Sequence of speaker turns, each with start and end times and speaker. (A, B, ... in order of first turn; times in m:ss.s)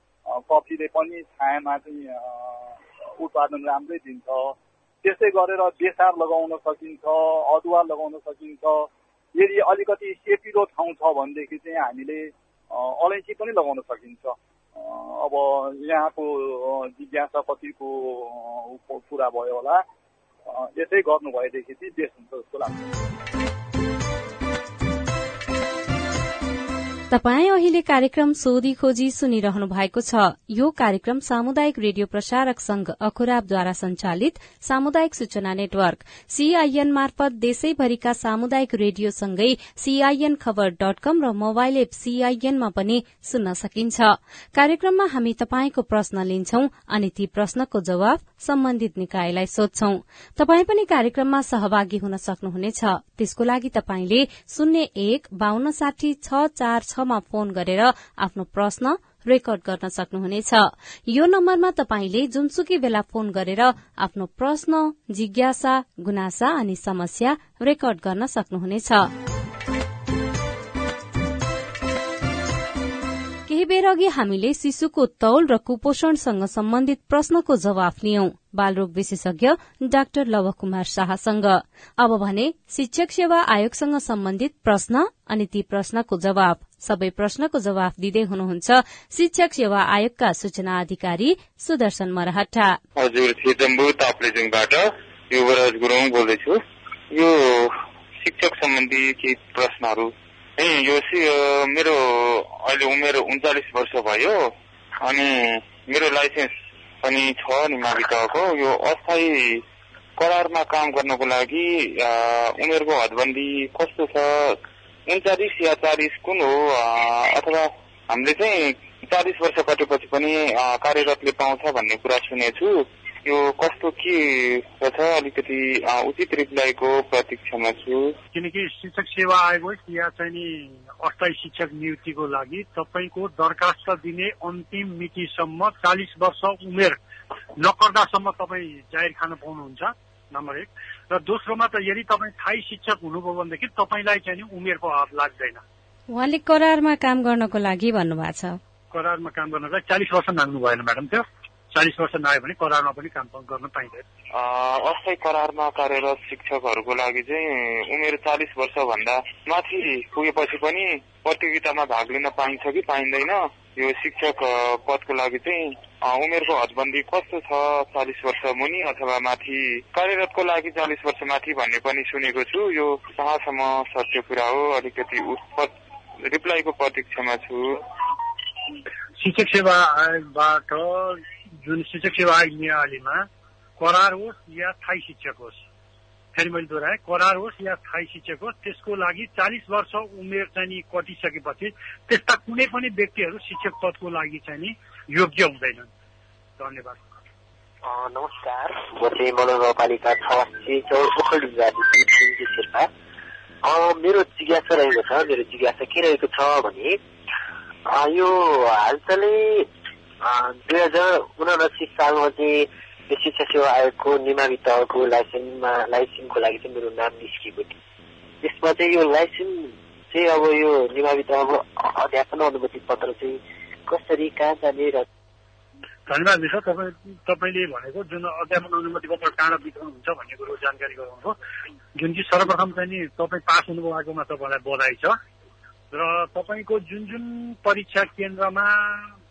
0:00.3-0:19.8 A
0:20.5-0:22.9 A
0:27.1-1:09.1 B
1:13.5-1:32.8 B
1:33.0-1:36.6 C
1:37.1-1:44.4 C
1:45.0-1:49.6 C
1:50.2-2:08.1 C
2:08.3-2:17.0 D
2:17.6-2:25.6 D
2:26.1-2:28.6 B
2:28.9-2:34.0 D
2:34.3-2:55.7 C
2:56.2-2:57.8 C
2:59.2-3:03.2 D
3:03.8-3:05.6 D
3:06.3-3:15.9 D
3:16.6-3:17.0 D
3:17.8-3:22.9 E
3:23.6-3:27.0 E
3:27.9-3:29.7 E
3:30.2-3:37.7 E
3:38.4-3:45.0 E
3:46.1-3:51.4 D
3:52.0-3:55.2 D
3:55.9-3:59.1 D